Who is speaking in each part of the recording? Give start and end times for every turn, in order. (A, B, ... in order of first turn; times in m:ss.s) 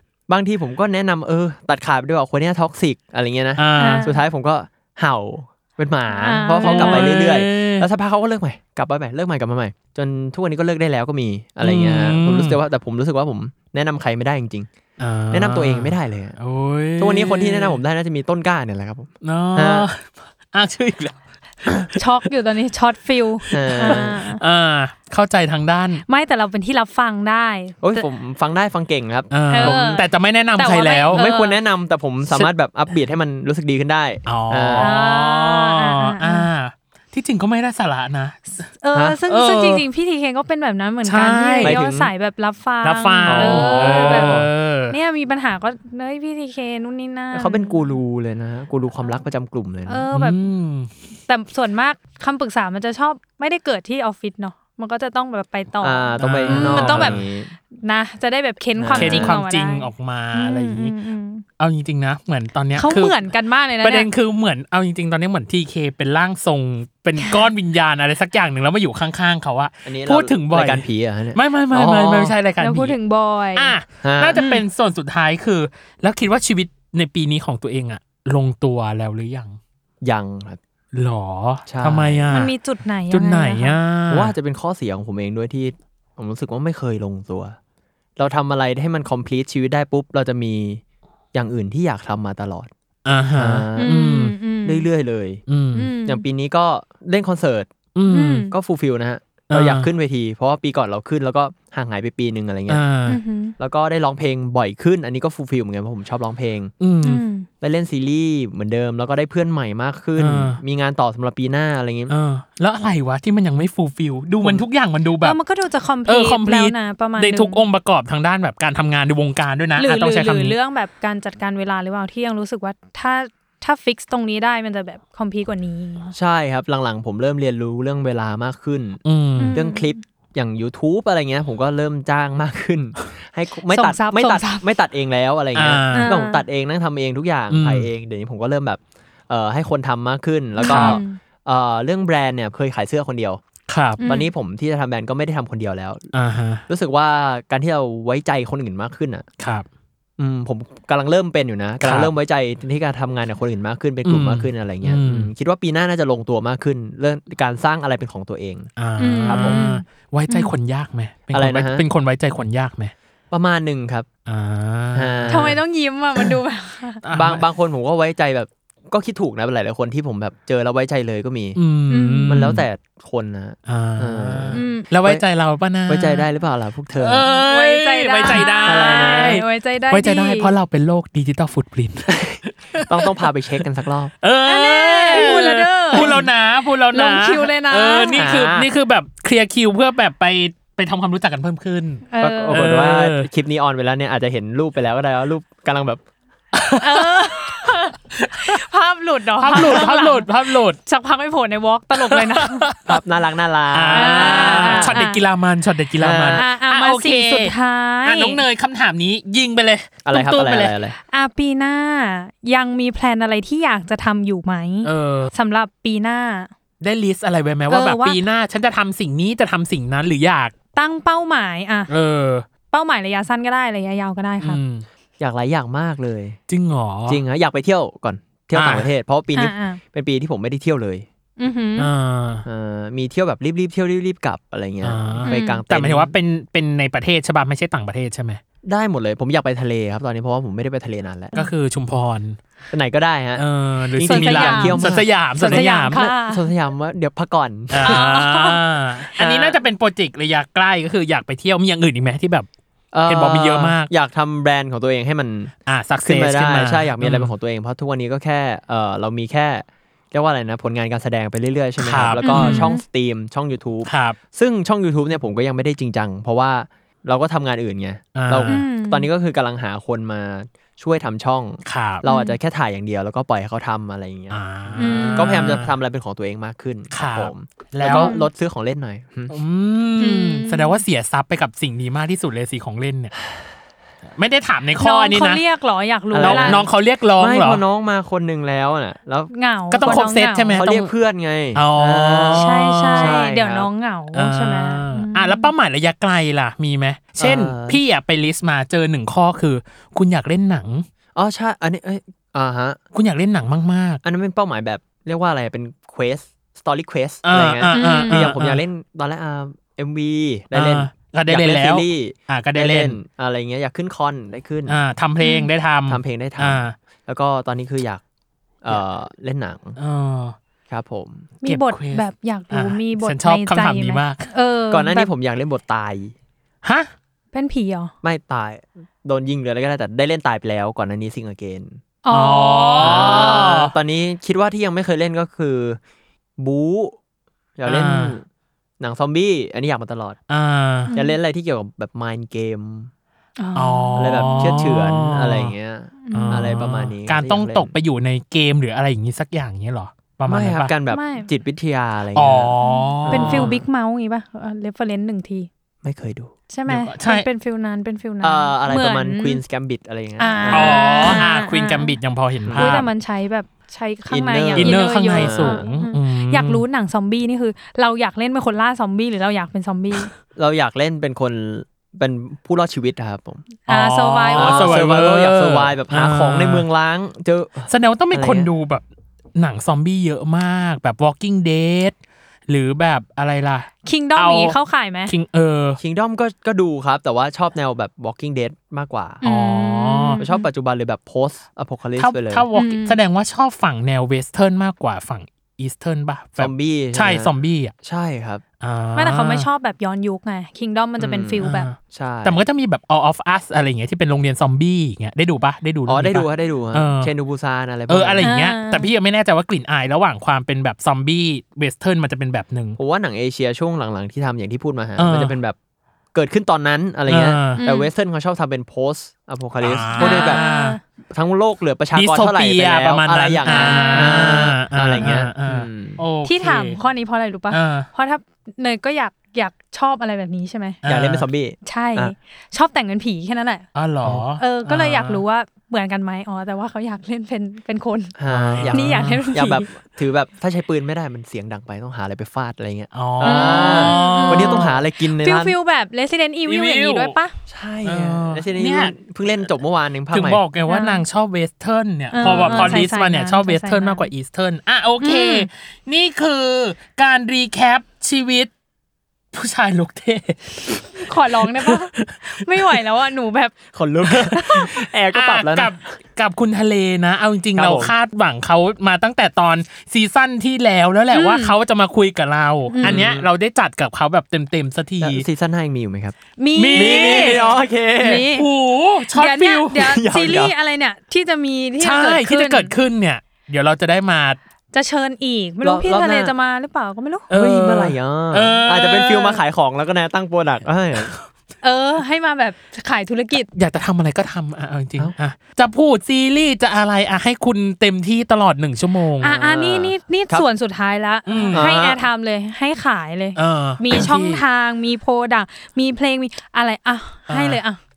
0:00.3-0:14.7 A
0:03.6-0:04.1 B
0:03.8-0:04.1 C
0:06.1-0:07.1 C
0:06.6-0:07.9 B
0:11.6-0:12.6 B
0:15.0-0:17.8 B
0:15.3-0:16.4 A
0:17.0-0:19.9 A
0:19.2-0:22.0 B
0:22.0-0:24.4 C
0:23.5-0:26.0 B
0:23.5-0:24.2 A
0:26.1-0:28.0 C
0:27.8-0:29.8 A
0:29.3-0:31.2 B
0:29.5-0:31.6 C
0:31.1-0:34.9 A
0:34.3-0:38.7 B
0:34.8-0:36.5 C
0:38.8-0:44.4 C
0:39.3-0:39.9 B
0:41.1-0:41.8 B
0:41.6-0:42.1 A
0:42.8-0:45.0 B
0:43.3-0:44.5 A
0:44.9-0:47.9 C
0:47.3-0:50.1 A
0:49.9-0:50.4 C
0:50.1-0:50.9 B
0:51.3-0:57.2 C
0:55.8-0:57.5 A
0:56.2-0:57.2 B
0:57.7-1:01.4 C
0:58.8-0:59.4 A
0:59.0-1:00.9 B
1:01.6-1:03.2 B
1:02.8-1:04.1 C
1:03.8-1:13.0 B
1:09.8-1:12.3 A
1:12.6-1:13.8 C
1:13.6-1:19.6 B
1:14.0-1:14.4 A
1:14.4-1:14.6 C
1:20.0-1:20.6 A
1:20.9-1:22.5 B
1:21.7-1:22.3 A
1:22.3-1:23.8 C
1:23.1-1:24.3 B
1:24.1-1:27.6 A
1:28.2-1:30.8 A
1:31.3-1:32.7 A
1:33.0-1:34.4 B
1:33.4-1:34.0 A
1:33.8-1:34.8 C
1:34.6-1:35.4 A
1:35.5-1:35.9 B
1:35.8-1:36.2 C
1:36.1-1:37.7 A
1:38.0-1:38.5 B
1:38.1-1:38.5 C
1:38.5-1:42.8 A
1:39.5-1:39.9 B
1:42.7-1:43.2 B
1:43.1-1:43.5 C
1:43.6-1:46.7 A
1:46.8-1:47.2 B
1:47.0-1:47.5 C
1:47.6-1:52.1 A
1:50.2-1:50.6 B
1:52.1-1:55.4 B
1:55.2-1:57.6 C
1:56.1-2:00.6 B
1:59.8-2:06.1 C
2:06.2-2:09.0 A
2:09.0-2:09.6 B
2:09.4-2:10.0 C
2:09.5-2:23.4 A
2:13.7-2:14.7 C
2:15.6-2:16.1 B
2:15.9-2:16.4 C
2:17.5-2:17.9 B
2:20.6-2:21.2 C
2:20.7-2:21.0 B
2:23.7-2:24.0 B
2:24.0-2:24.3 C
2:24.0-2:26.1 A
2:26.1-2:26.6 B
2:26.7-2:29.3 A
2:29.4-2:29.7 B
2:30.2-2:38.7 A
2:31.8-2:32.1 B
2:34.0-2:35.3 B
2:38.8-2:42.9 B
2:39.0-2:40.5 C
2:39.3-2:39.6 A
2:41.3-2:41.8 A
2:43.3-2:44.1 A
2:44.3-2:45.6 B
2:44.9-2:45.6 A
2:45.3-2:47.0 C
2:47.0-2:47.4 B
2:47.1-2:51.6 A
2:51.6-2:52.6 B
2:51.9-2:52.4 C
2:52.3-2:55.2 A
2:53.7-2:56.2 B
2:54.5-2:54.9 C
2:55.9-2:57.3 A
2:57.0-3:03.3 B
2:57.3-3:00.5 C
2:58.2-2:59.4 A
3:02.1-3:04.1 A
3:04.2-3:13.3 B
3:04.4-3:06.2 C
3:05.9-3:06.3 A
3:06.9-3:08.2 C
3:08.2-3:08.7 A
3:12.1-3:12.6 C
3:12.2-3:16.0 A
3:16.5-3:18.6 B
3:16.8-3:22.6 C
3:19.4-3:20.8 B
3:19.6-3:19.8 A
3:22.0-3:23.0 B
3:22.9-3:25.0 A
3:23.7-3:30.7 B
3:23.9-3:25.2 C
3:26.0-3:26.4 A
3:26.3-3:28.4 C
3:30.0-3:31.0 A
3:31.1-3:36.5 C
3:34.8-3:35.3 B
3:36.8-3:40.5 B
3:37.7-3:38.2 C
3:40.8-3:41.9 C
3:41.9-3:42.5 B
3:42.7-3:44.6 C
3:44.4-3:44.9 B
3:45.2-3:46.4 A
3:46.5-3:47.2 B
3:47.1-3:51.1 A
3:48.5-3:48.9 B
3:49.4-3:49.8 C
3:51.4-3:51.9 C
3:51.8-3:52.4 B
3:52.5-3:56.1 A
3:54.8-3:58.4 B
3:55.2-3:55.6 C
3:58.6-4:01.4 A
4:01.3-4:02.4 B
4:02.7-4:08.1 A
4:03.4-4:06.0 B
4:04.1-4:06.4 C
4:07.7-4:12.5 B
4:07.8-4:08.6 C
4:09.2-4:09.6 A
4:12.9-4:39.4 A
4:13.1-4:13.9 B
4:15.7-4:17.3 B
4:21.8-4:22.7 B
4:22.2-4:22.8 C
4:23.9-4:24.2 B
4:28.2-4:28.6 B
4:28.5-4:29.1 C
4:31.7-4:32.0 B
4:32.0-4:32.4 C
4:34.3-4:35.7 B
4:34.8-4:35.3 C
4:36.9-4:38.1 B
4:37.9-4:38.3 C
4:39.3-4:43.1 B
4:40.0-4:40.8 C
4:44.2-4:45.4 B
4:44.8-4:46.7 C
4:46.1-4:53.7 A
4:46.2-4:47.6 B
4:49.3-4:50.5 C
4:49.7-4:50.9 B
4:51.6-4:53.2 B
4:52.4-4:55.5 C
4:54.1-5:00.9 B
4:57.2-4:57.8 A
5:01.2-5:02.8 A
5:02.9-5:04.0 B
5:04.0-5:14.8 A
5:07.2-5:08.6 B
5:07.7-5:08.2 C
5:10.5-5:13.0 B
5:14.7-5:16.8 B
5:15.2-5:15.5 C
5:15.9-5:18.0 A
5:18.6-5:19.8 A
5:19.8-5:20.4 B
5:20.7-5:21.3 A
5:21.4-5:25.1 C
5:21.4-5:24.3 B
5:24.7-5:26.1 A
5:26.6-5:26.9 B
5:27.3-5:27.9 C
5:28.0-5:31.8 A
5:32.0-5:33.4 C
5:32.1-5:33.7 B
5:32.8-5:35.8 A
5:36.4-5:37.0 A
5:37.6-5:38.2 A
5:37.7-5:38.2 B
5:38.8-5:40.2 A
5:40.3-5:40.9 B
5:40.9-5:42.9 A
5:43.4-5:44.6 C
5:43.6-5:45.5 B
5:44.0-5:47.7 A
5:46.0-5:46.5 C
5:46.1-5:50.7 B
5:50.3-5:52.5 A
5:50.9-5:51.3 C
5:52.2-5:53.5 B
5:52.6-5:55.5 C
5:53.0-5:53.6 A
5:55.8-5:56.3 A
5:56.5-5:59.4 C
5:56.7-5:57.3 B
5:58.2-6:01.2 A
6:00.2-6:01.9 C
6:00.5-6:02.9 B
6:02.4-6:02.8 A
6:02.6-6:10.1 C
6:04.1-6:05.6 A
6:04.6-6:06.6 B
6:10.4-6:13.5 A
6:13.7-6:14.7 C
6:13.7-6:16.6 B
6:14.3-6:18.5 A
6:17.7-6:18.8 B
6:19.4-6:22.0 B
6:22.5-6:24.6 B
6:23.8-6:25.1 C
6:25.1-6:25.8 B
6:25.8-6:29.2 A
6:29.2-6:30.4 C
6:29.2-6:30.2 B
6:30.2-6:32.5 A
6:32.0-6:37.7 B
6:32.6-6:33.0 C
6:36.4-6:37.3 A
6:37.8-6:38.4 A
6:38.6-6:39.5 B
6:39.0-6:41.7 C
6:41.0-6:42.4 A
6:41.4-6:47.1 B
6:45.9-6:48.3 A
6:47.9-6:52.8 B
6:48.2-6:48.9 C
6:52.8-6:55.6 A
6:55.0-6:55.4 B
6:56.1-7:00.4 A
6:57.1-6:57.6 B
6:57.6-6:57.9 C
6:59.6-7:00.8 B
7:00.0-7:00.8 C
7:01.1-7:06.0 A
7:02.0-7:06.8 B
7:03.5-7:04.4 C
7:06.2-7:10.8 C
7:07.5-7:07.9 B
7:10.8-7:11.3 B
7:10.9-7:12.2 A
7:11.6-7:13.7 C
7:13.8-7:15.2 B
7:14.4-7:18.2 C
7:18.2-7:25.6 A
7:18.3-7:19.2 B
7:18.7-7:19.7 C
7:22.9-7:24.7 B
7:23.2-7:27.4 C
7:26.5-7:27.2 B
7:27.5-7:30.4 A
7:27.8-7:28.9 B
7:30.1-7:38.5 B
7:30.7-7:31.0 C
7:32.1-7:34.1 C
7:32.2-7:32.9 A
7:35.0-7:35.5 C
7:39.3-7:42.8 B
7:40.9-7:43.6 C
7:43.7-7:45.7 A
7:44.2-7:55.2 B
7:47.6-7:47.9 A
7:51.1-7:51.6 C
7:52.7-7:53.0 C
7:52.8-7:53.3 A
7:55.0-7:56.2 A
7:56.4-7:58.5 C
7:56.6-7:57.5 B
7:56.7-7:58.3 A
7:58.1-7:59.9 B
7:59.1-8:02.7 C
7:59.8-8:00.5 A
8:01.8-8:04.4 B
8:04.7-8:07.3 C
8:05.6-8:06.3 A
8:07.3-8:09.4 B
8:07.3-8:11.1 A
8:11.6-8:13.5 C
8:13.6-8:19.7 B
8:19.2-8:27.8 C
8:19.5-8:20.5 A
8:21.3-8:21.7 B
8:21.5-8:22.0 A
8:23.4-8:24.4 B
8:27.3-8:27.6 B